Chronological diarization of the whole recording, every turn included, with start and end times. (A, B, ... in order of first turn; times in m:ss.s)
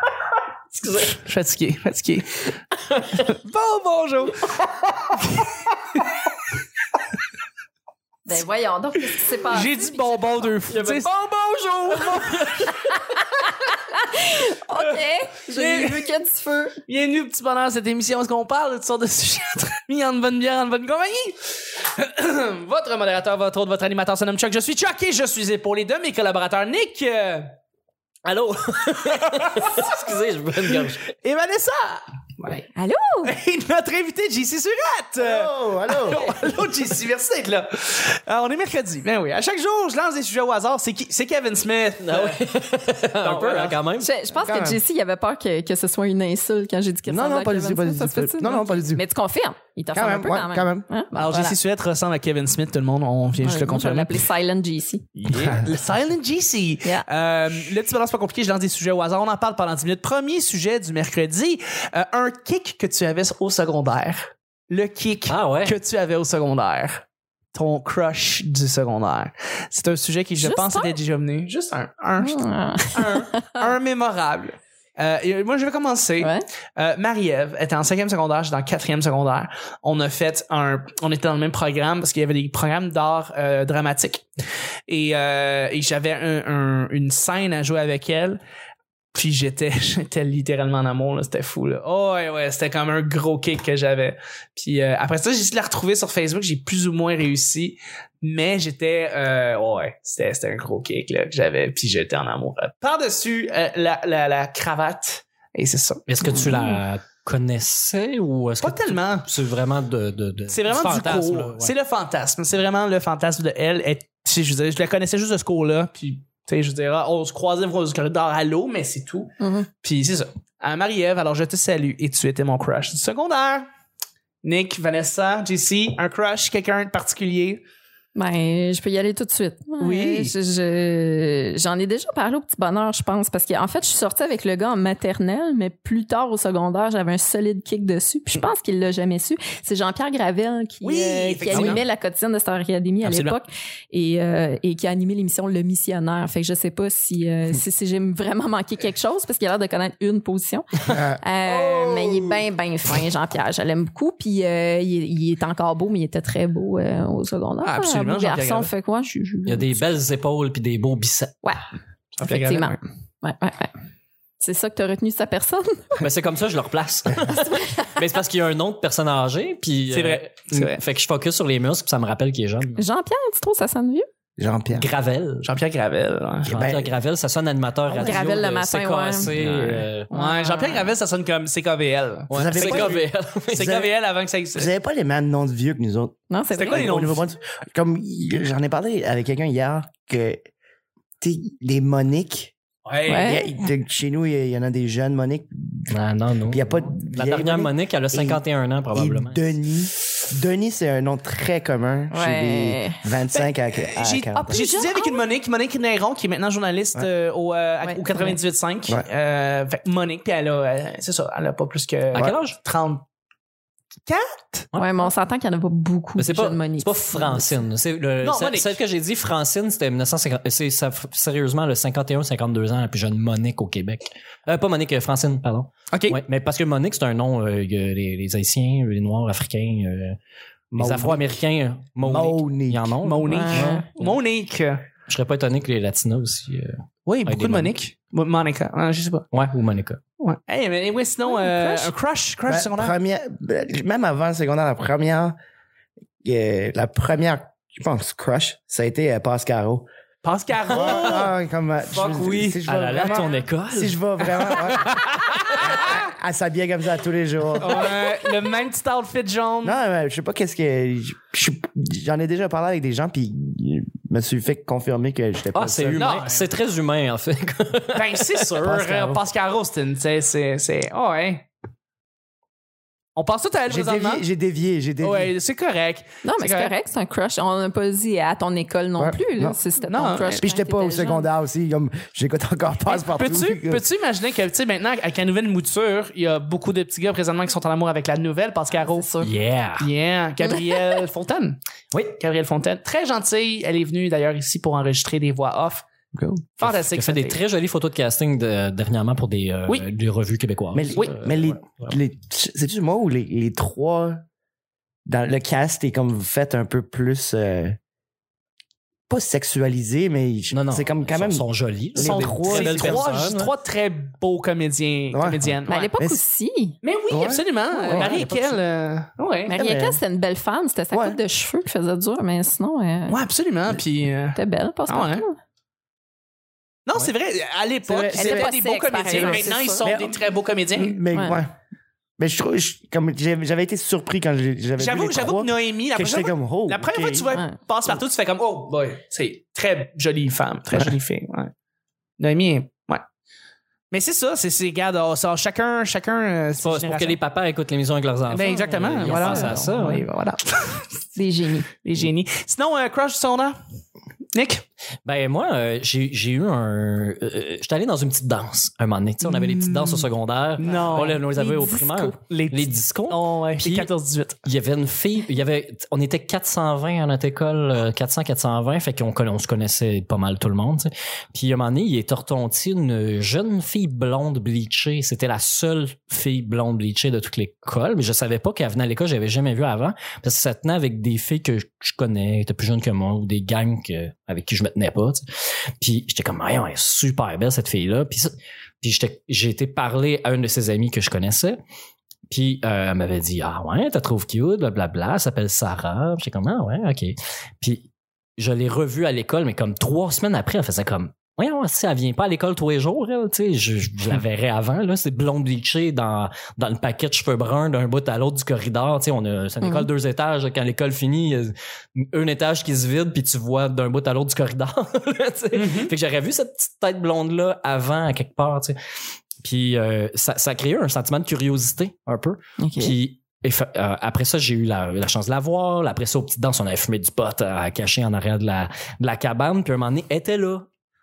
0:00.8-0:01.1 A
0:01.1-0:02.5 B
0:03.1-0:04.6 B
0:05.1-0:05.5 B
0:08.2-0:10.5 C
0:09.5-0:11.1 B
0:10.7-0:12.7 A
0:12.3-0:16.8 C
0:15.5-0:16.0 B
0:16.9-0:27.5 B
0:28.2-0:31.1 A
0:29.3-0:29.7 B
0:31.2-0:32.7 B
0:32.8-0:33.3 C
0:33.2-0:42.5 B
0:35.2-0:36.3 D
0:42.0-0:44.1 A
0:43.2-0:43.8 B
0:44.0-0:51.6 C
0:44.4-0:44.8 D
0:47.1-0:49.0 D
0:49.9-0:50.9 D
0:51.2-0:54.2 B
0:53.4-0:55.1 C
0:55.2-1:12.4 B
1:05.3-1:05.7 A
1:10.4-1:11.0 C
1:12.2-1:13.6 C
1:12.9-1:24.2 B
1:16.2-1:16.5 C
1:24.9-1:28.4 B
1:29.1-1:46.0 B
1:46.1-1:51.7 A
1:48.6-1:49.3 B
1:50.5-2:03.7 B
1:59.4-1:59.7 C
2:04.4-2:07.6 B
2:08.2-2:39.8 C
2:09.8-2:10.3 B
2:20.8-2:21.8 B
2:23.0-2:23.4 B
2:30.9-2:32.4 D
2:37.6-2:38.7 B
2:39.5-2:41.4 A
2:42.2-2:42.8 B
2:42.2-2:43.7 C
2:44.4-2:46.0 C
2:46.0-2:52.8 A
2:47.4-2:47.9 C
2:49.9-2:50.8 B
2:52.8-2:54.1 C
2:54.4-2:54.9 D
2:54.8-2:55.5 A
2:55.4-2:56.6 B
2:56.5-2:56.9 D
2:56.5-3:00.1 A
2:57.9-3:00.9 C
3:00.1-3:04.7 B
3:02.3-3:03.8 A
3:02.3-3:03.0 D
3:03.6-3:03.9 D
3:04.5-3:10.4 D
3:06.3-3:06.9 C
3:06.6-3:07.3 B
3:11.2-3:12.6 D
3:12.9-3:13.4 B
3:13.1-3:13.4 C
3:13.1-3:15.9 D
3:15.9-3:19.5 A
3:16.5-3:24.6 D
3:22.1-3:23.0 C
3:23.4-3:33.0 B
3:24.3-3:25.2 C
3:27.8-3:28.4 C
3:32.2-3:32.6 A
3:34.1-3:34.7 B
3:34.7-3:35.1 A
3:34.8-3:37.6 C
3:36.2-3:50.2 A
3:38.2-3:38.8 B
3:45.9-3:46.2 B
3:50.7-3:51.4 D
3:50.8-3:53.8 A
3:52.0-3:53.0 D
3:53.0-3:54.8 B
3:53.2-3:53.9 C
3:55.1-3:57.7 A
3:57.1-3:59.3 B
3:59.3-4:00.0 A
4:00.2-4:03.0 B
4:01.3-4:01.9 C
4:02.5-4:05.4 D
4:06.2-4:09.9 D
4:10.2-4:11.3 B
4:10.7-4:15.0 D
4:10.7-4:11.1 A
4:11.9-4:12.2 B
4:12.0-4:15.1 A
4:15.2-4:16.0 B
4:15.8-4:18.0 D
4:17.6-4:19.8 B
4:19.6-4:26.2 D
4:25.5-4:29.2 A
4:26.0-4:26.5 B
4:27.9-4:31.4 B
4:28.6-4:29.2 D
4:33.2-4:34.2 B
4:33.7-4:35.3 D
4:35.0-4:36.7 B
4:36.2-4:41.3 C
4:39.0-4:39.6 D
4:39.9-4:40.4 B
4:40.2-4:43.8 D
4:42.9-4:49.1 B
4:48.8-4:49.4 C
4:49.2-4:49.9 A
4:49.8-4:51.6 B
4:52.2-4:55.8 B
4:56.1-4:56.4 D
4:56.6-4:57.4 B
4:56.6-5:02.0 A
5:00.7-5:04.2 D
5:05.1-5:07.8 D
5:09.1-5:13.1 D
5:10.5-5:13.5 A
5:12.0-5:15.9 B
5:15.1-5:16.2 D
5:15.7-5:16.8 C
5:16.8-5:19.6 B
5:17.1-5:17.4 D
5:17.7-5:18.2 C
5:17.9-5:18.5 A
5:19.5-5:23.2 C
5:19.5-5:20.0 D
5:20.9-5:21.2 D
5:23.1-5:25.2 B
5:24.4-5:25.4 C
5:26.9-5:31.0 B
5:27.8-5:30.2 D
5:28.1-5:29.9 C
5:30.7-5:31.5 D
5:31.1-5:31.4 C
5:32.2-5:37.3 D
5:34.8-5:41.5 B
5:37.3-5:37.6 C
5:42.2-5:43.0 B
5:43.9-5:47.2 B
5:46.6-5:50.0 A
5:48.3-5:50.9 B
5:49.1-5:50.0 C
5:51.2-5:51.7 C
5:51.8-5:53.6 B
5:54.3-5:54.6 B
5:55.0-6:03.9 A
5:59.3-6:00.0 B
6:00.6-6:01.2 B
6:00.7-6:02.2 C
6:02.3-6:04.4 B
6:04.4-6:25.2 A
6:25.8-6:31.6 A
6:32.3-6:58.8 A
6:49.6-6:49.9 C
6:55.5-6:55.9 B
6:59.4-7:10.7 A
7:02.6-7:03.0 C